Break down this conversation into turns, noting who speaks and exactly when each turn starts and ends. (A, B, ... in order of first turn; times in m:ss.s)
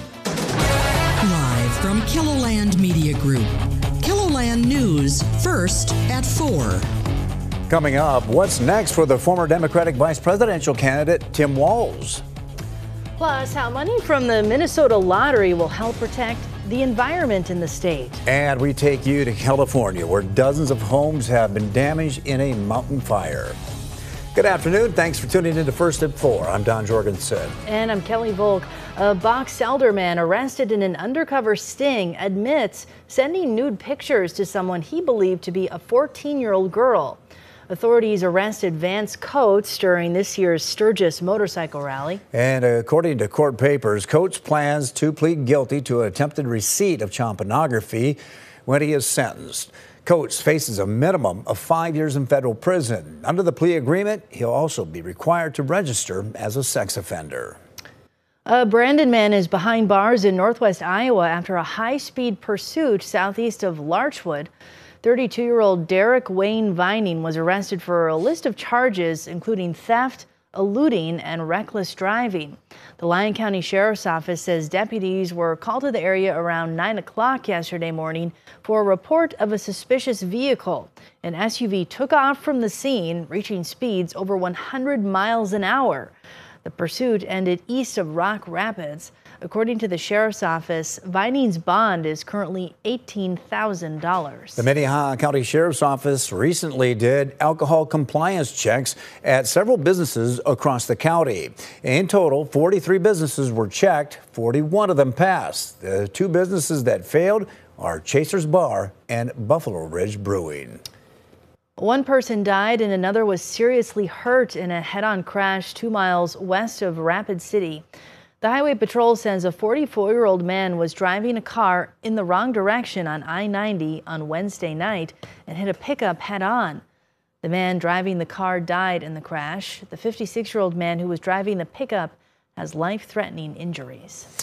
0:01.2-0:06.9 A
0:07.7-0:12.2 B
0:13.2-0:18.2 C
0:18.2-0:23.6 B
0:24.3-0:27.6 B
0:27.6-0:42.2 C
0:42.3-0:57.6 B
0:58.5-1:04.5 C
1:05.0-1:34.6 C
1:34.6-1:50.8 B
1:51.8-1:57.8 C
1:58.4-2:06.8 C
2:07.4-2:14.3 C